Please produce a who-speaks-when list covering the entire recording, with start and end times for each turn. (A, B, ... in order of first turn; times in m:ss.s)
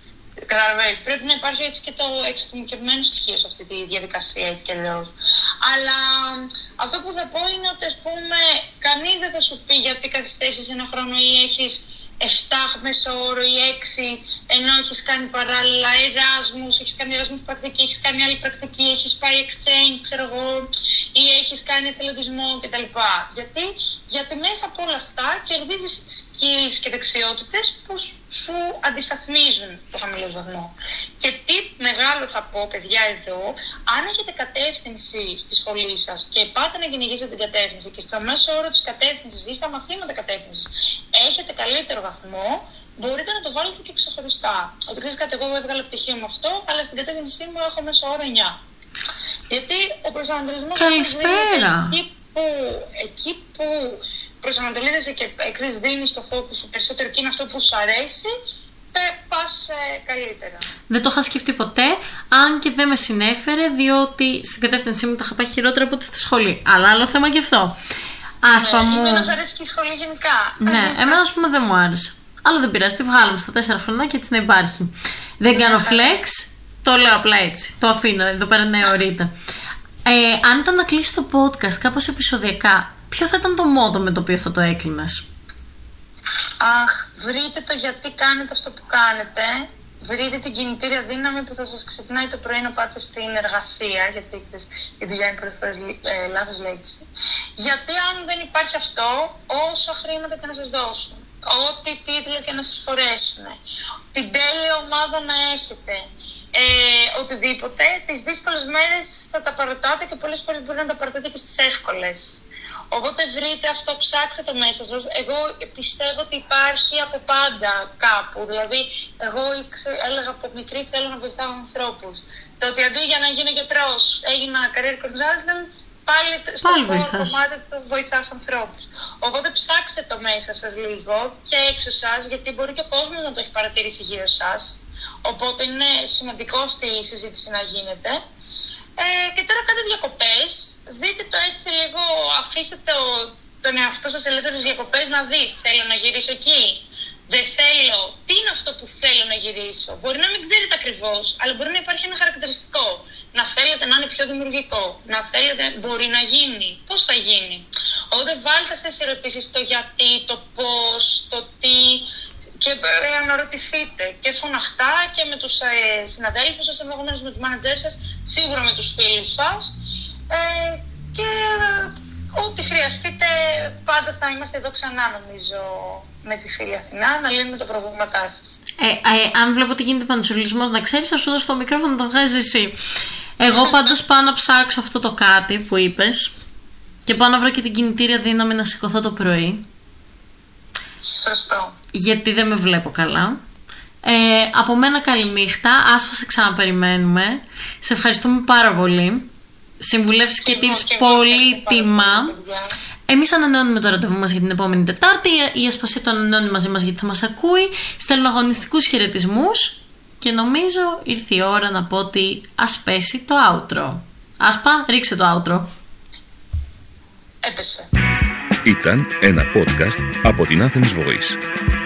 0:00.5-0:48.6 A
0:49.5-0:58.3 A
0:50.8-0:52.0 B
0:58.9-1:00.7 A
1:00.9-1:07.8 B
1:08.4-1:09.3 B
1:08.5-1:11.2 A
1:10.6-1:19.3 B
1:15.5-1:16.2 A
1:20.0-1:25.2 B
1:26.6-1:37.0 A
1:37.6-1:43.6 A
1:44.1-2:18.2 A
2:06.6-2:07.4 B
2:19.0-2:42.0 A
2:42.6-2:49.7 A
2:50.3-2:58.6 A
2:58.8-3:02.8 B
3:03.4-3:06.3 B
3:03.6-3:03.9 A
3:07.0-3:09.6 B
3:11.0-3:11.7 A
3:11.9-3:13.4 B
3:14.0-3:19.3 B
3:19.8-3:22.3 B
3:20.4-3:22.7 A
3:23.1-3:35.7 B
3:37.4-3:37.9 A
3:38.6-3:41.4 C